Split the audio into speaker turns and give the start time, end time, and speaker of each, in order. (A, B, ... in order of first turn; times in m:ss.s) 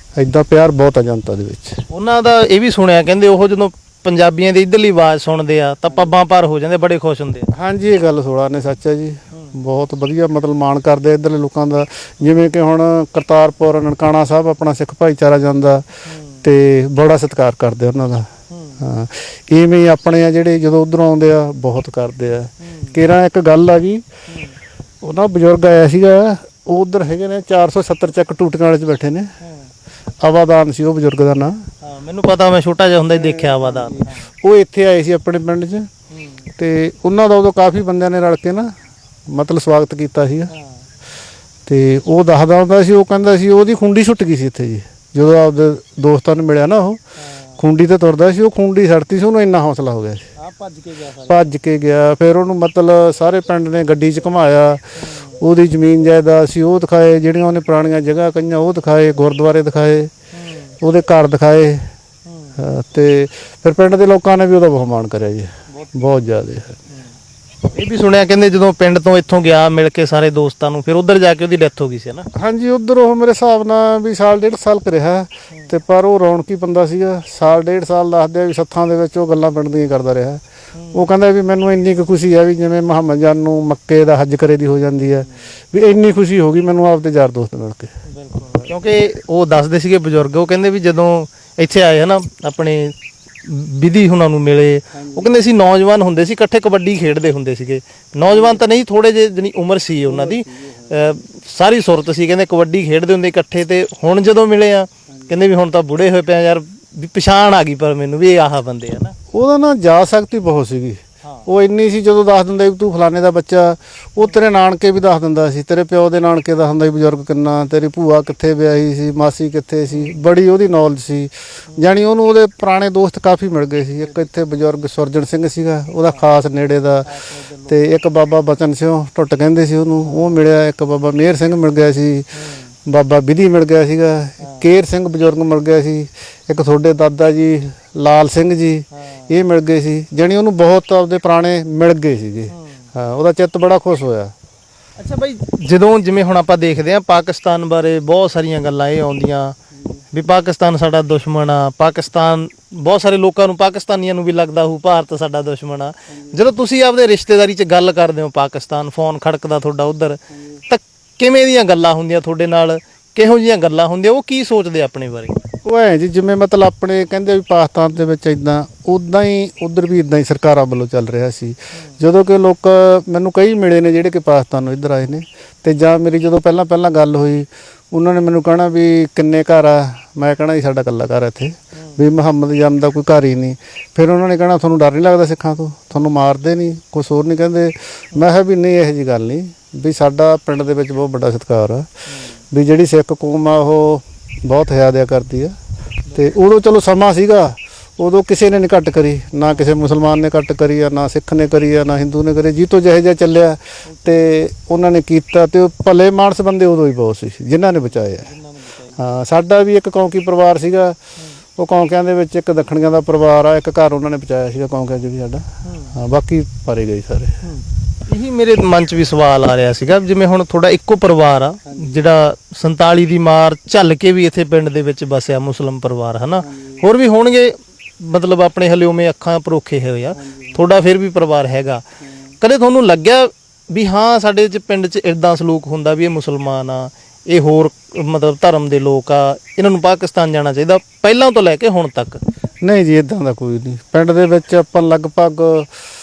0:00.2-0:01.8 A
0:01.9-0:07.5 B
0:07.5-0:15.9 A
0:09.3-0:09.6 B
0:16.0-0:16.4 B
0:16.4-0:24.0 A
0:18.5-0:18.8 B
0:22.6-0:23.0 B
0:24.3-0:24.6 B
0:25.0-0:29.3 A
0:29.4-0:29.7 B
0:30.2-0:31.6 A
0:31.8-0:34.3 B
0:33.1-0:35.9 A
0:36.1-0:36.5 B
0:36.5-0:38.7 A
0:39.3-0:40.5 A
0:40.5-0:40.9 B
0:41.6-0:47.0 A
0:47.2-0:47.6 B
0:47.6-0:50.3 A
0:50.4-0:51.5 B
0:51.2-1:00.1 A
0:55.0-0:55.4 B
1:00.3-1:00.8 B
1:00.8-1:01.9 A
1:02.2-1:02.6 B
1:02.6-1:06.8 A
1:05.7-1:06.2 B
1:07.7-1:12.3 B
1:12.3-1:20.4 A
1:20.7-1:21.1 B
1:20.9-1:27.9 A
1:28.1-1:49.2 B
1:49.3-2:07.1 A
1:59.9-2:00.2 B
2:07.0-2:07.9 B
2:07.6-2:12.3 A
2:10.0-2:10.4 B
2:12.3-2:12.8 B
2:12.8-2:24.3 A
2:14.4-2:14.7 B
2:18.9-2:19.4 B
2:22.5-2:22.9 B
2:25.0-2:45.4 B
2:45.6-3:11.9 A
2:51.7-2:52.0 B
3:01.7-3:02.0 B
3:12.1-3:12.4 B
3:12.5-3:15.5 A
3:16.1-3:16.3 B
3:16.1-3:28.3 A
3:19.5-3:19.7 B
3:23.8-3:24.3 B
3:27.8-3:29.0 B
3:29.0-3:31.0 A
3:31.6-3:37.4 A
3:35.6-3:36.0 B
3:37.4-3:51.8 B
3:52.4-4:02.2 B
4:02.6-4:05.7 A